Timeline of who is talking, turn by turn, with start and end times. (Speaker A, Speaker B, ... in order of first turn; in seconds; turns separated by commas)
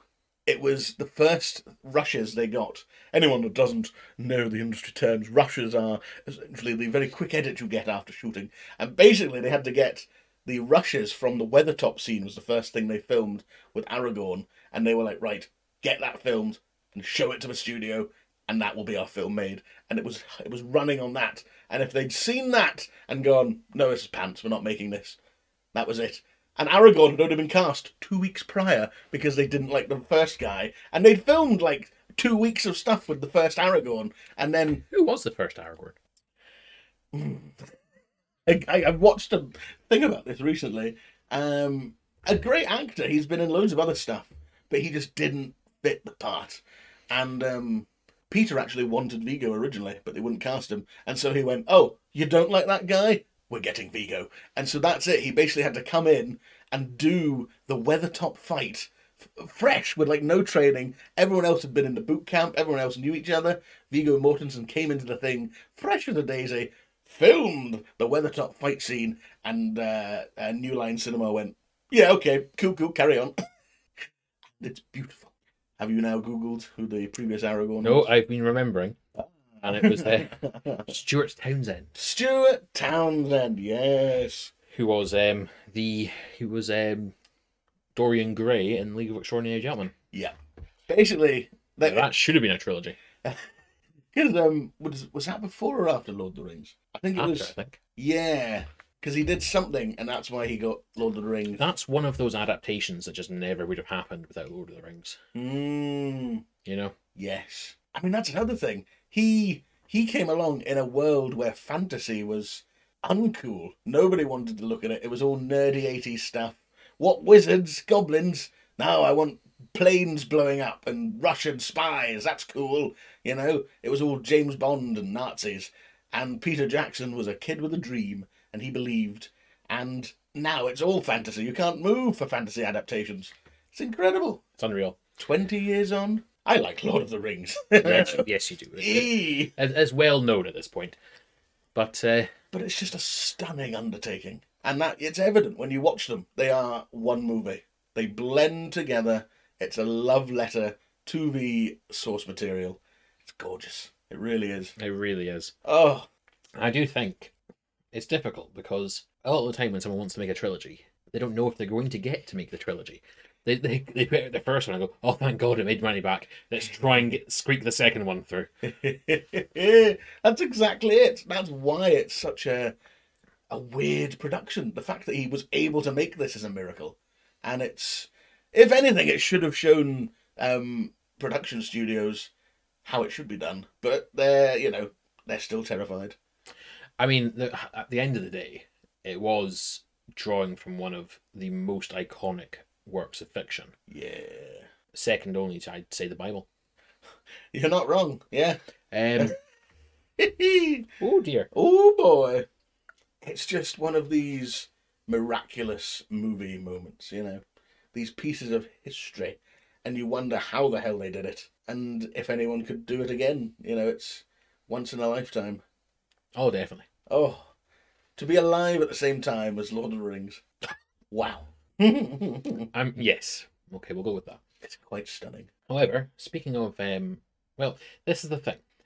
Speaker A: 0.5-25.2, Speaker A: 25.7-34.8, Speaker B: 34.9-36.0, Speaker A: 37.1-37.5, Speaker A: 38.5-73.3, Speaker A: 74.6-78.1, Speaker B: 77.8-79.0, Speaker A: 79.2-80.9, Speaker B: 79.6-80.3, Speaker B: 80.9-81.9, Speaker A: 82.0-84.5, Speaker B: 84.7-87.1, Speaker B: 88.0-89.9, Speaker A: 90.9-92.1, Speaker B: 91.8-93.0, Speaker A: 94.1-101.6, Speaker B: 97.2-97.8, Speaker B: 101.5-105.2, Speaker A: 105.3-106.4, Speaker B: 106.7-107.0, Speaker A: 107.2-134.4, Speaker B: 134.6-135.0, Speaker A: 135.2-138.3, Speaker B: 137.8-141.0, Speaker A: 138.8-139.5, Speaker B: 141.8-142.3, Speaker A: 142.5-154.7, Speaker B: 154.8-155.5, Speaker A: 155.7-156.1, Speaker B: 156.6-157.3, Speaker B: 157.9-168.5, Speaker A: 168.6-172.8, Speaker A: 173.5-182.3, Speaker A: 182.8-186.2, Speaker B: 187.0-193.7, Speaker A: 193.9-194.7, Speaker B: 194.9-196.5, Speaker A: 197.5-198.6, Speaker B: 198.9-199.3, Speaker A: 200.2-200.9, Speaker B: 201.0-201.5, Speaker A: 201.5-202.5, Speaker A: 203.2-207.4, Speaker A: 207.9-215.6, Speaker B: 216.3-216.9, Speaker A: 217.1-217.5, Speaker A: 218.2-220.4, Speaker A: 221.1-222.7, Speaker B: 222.7-224.4, Speaker A: 224.6-225.5, Speaker B: 225.7-228.6